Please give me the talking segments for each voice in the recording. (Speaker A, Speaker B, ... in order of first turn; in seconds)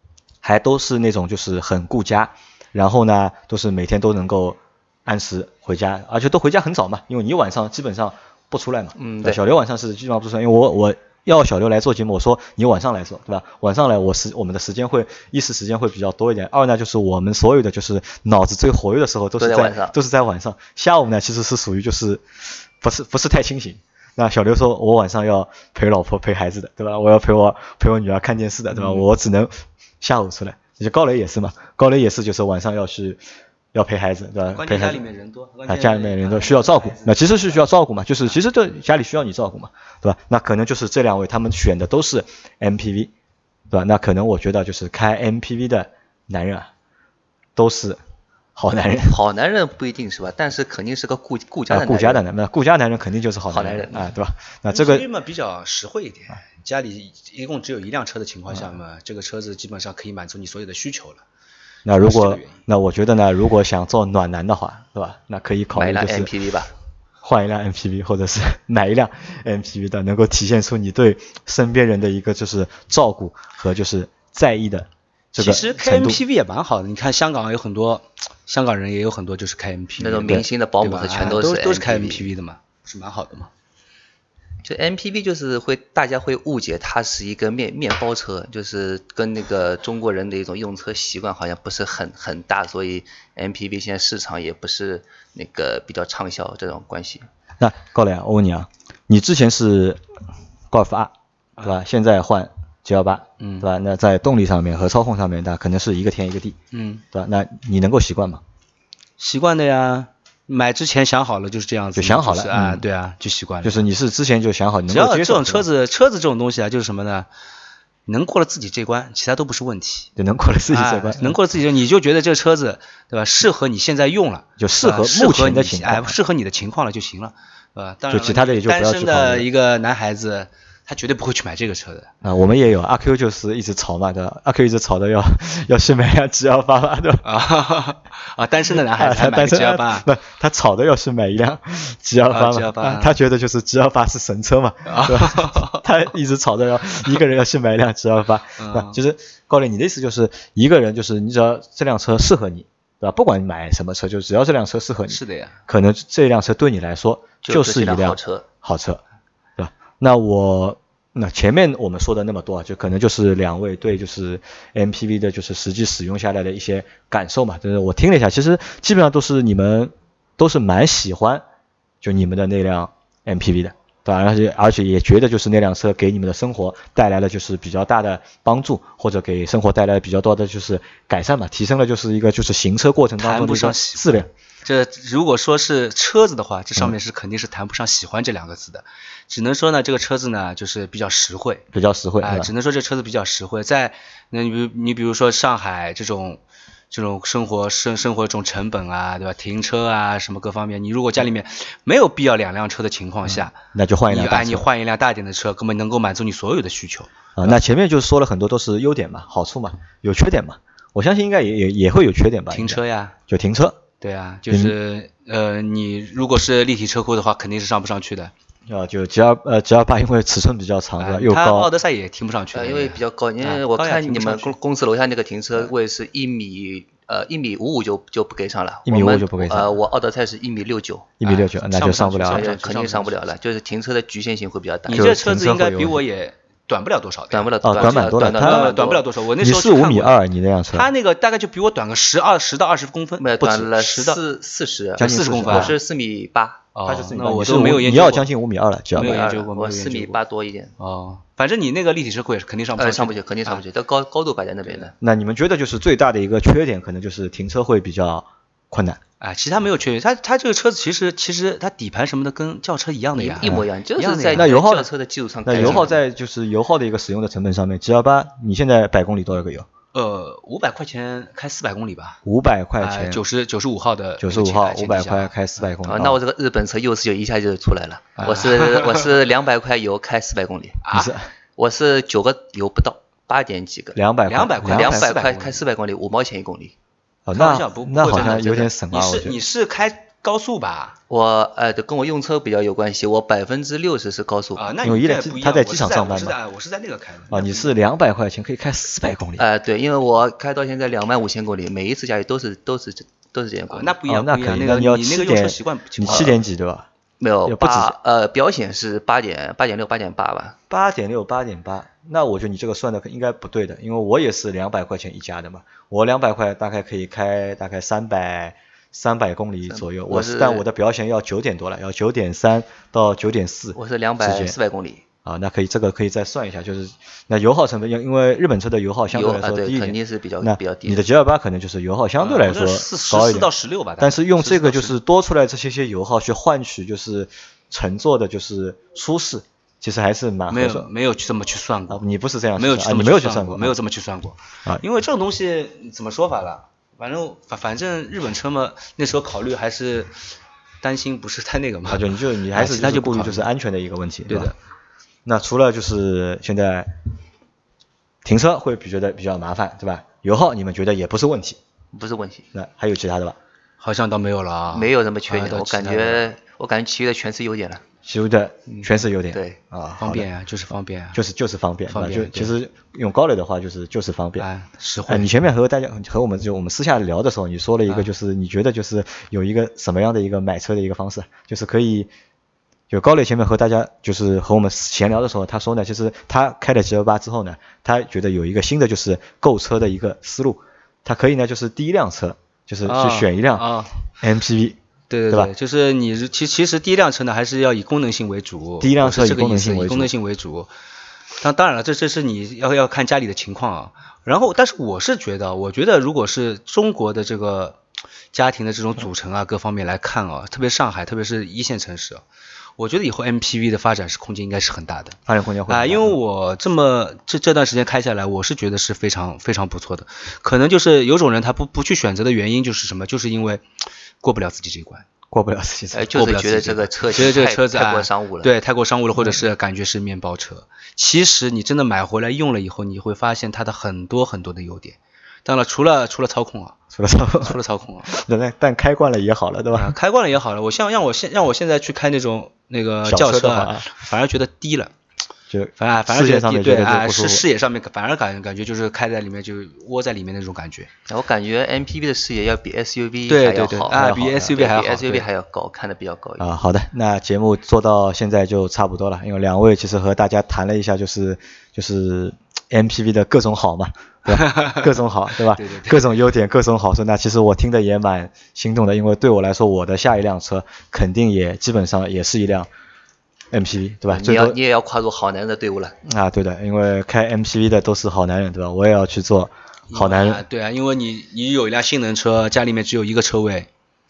Speaker A: 0.4-22.2, 22.8-33.2, 33.7-35.0, 35.7-43.1, 43.7-46.7, 47.5-48.0, 48.5-49.1, 51.7-55.1, 61.9-66.3, 67.2-76.2, 97.6-100.0, 100.7-106.6, 107.1-108.4, 111.9-112.8, 113.6-115.7, 120.2-121.4, 124.6-126.2, 128.1-129.5, 132.2-137.2, 138.8-159.0, 159.6-171.4, 172.0-184.3, 191.7-192.5, 203.3-204.7, 207.4-213.8, 214.5-214.7, 218.7-221.7, 228.8-229.8, 231.2-232.5, 234.9-236.0, 237.6-238.7, 239.4-240.9, 245.0-245.8, 246.8-249.3, 255.0-259.0, 264.3-264.9, 265.4-269.7, 272.2-273.2, 274.2-276.2, 280.9-281.2, 283.9-285.1, 287.2-289.4, 294.8-296.4, 297.3-299.4, 304.1-306.9, 307.4-307.9, 310.7-324.6, 325.2-340.9, 341.9-343.8, 351.9-354.5, 355.2-356.9, 358.2-361.6, 362.5-363.4, 368.0-370.3, 371.1-374.5, 375.1-382.1, 382.9-393.7, 394.2-394.8, 398.8-400.1, 415.3-416.2, 425.3-426.2, 436.9-437.6, 438.1-439.9, 443.0-443.9, 445.5-447.4, 453.9-454.5, 456.4-472.7, 473.5-474.6, 476.0-480.4
Speaker B: 8.9-9.4, 19.4-19.9, 49.0-52.2, 53.5-54.0, 65.7-66.7, 80.0-82.3, 84.6-97.2, 157.4-158.4, 222.5-231.1, 232.3-235.1, 237.3-239.1, 243.2-246.6, 249.0-250.7, 252.8-254.9, 263.1-266.0, 275.8-280.8, 281.6-284.0, 284.6-286.7, 291.1-294.6, 299.4-303.9, 307.2-310.6, 319.7-320.6, 323.7-325.0, 329.1-331.0, 361.9-362.5, 364.7-367.8, 368.7-369.6, 425.9-428.5, 451.1-456.4, 474.1-475.9
Speaker C: 28.7-29.0, 34.5-37.6, 54.7-61.2, 61.9-62.6, 75.3-83.5, 103.4-103.7, 106.7-107.0, 109.2-113.9, 114.9-117.3, 118.0-120.1, 120.7-132.1, 137.2-140.1, 142.3-143.2, 144.8-145.8, 148.6-148.9, 155.1-155.6, 183.2-191.7, 192.2-196.4, 196.9-203.6, 204.1-207.6, 212.5-213.2, 214.0-218.3, 221.0-224.5, 231.2-233.2, 234.9-240.2, 240.7-244.2, 245.0-245.8, 246.7-248.3, 248.9-250.2, 250.8-253.6, 259.2-264.5, 265.5-265.9, 269.9-272.2, 272.8-275.3, 278.2-279.1, 280.8-281.1, 284.2-285.6, 287.3-290.9, 294.5-297.7, 303.7-306.4, 332.2-335.0, 340.5-342.0, 342.6-350.1, 350.8-353.5, 354.3-354.5, 363.8-366.4, 370.0-371.2, 371.9-372.5, 374.4-375.3, 392.8-393.9, 395.1-400.7, 401.4-407.8, 408.3-412.2, 412.8-423.6, 424.2-425.1, 426.1-436.8, 437.4-438.1, 439.7-444.9, 445.8-450.9, 453.3-455.3, 464.3-464.9, 465.5-466.1, 479.9-483.7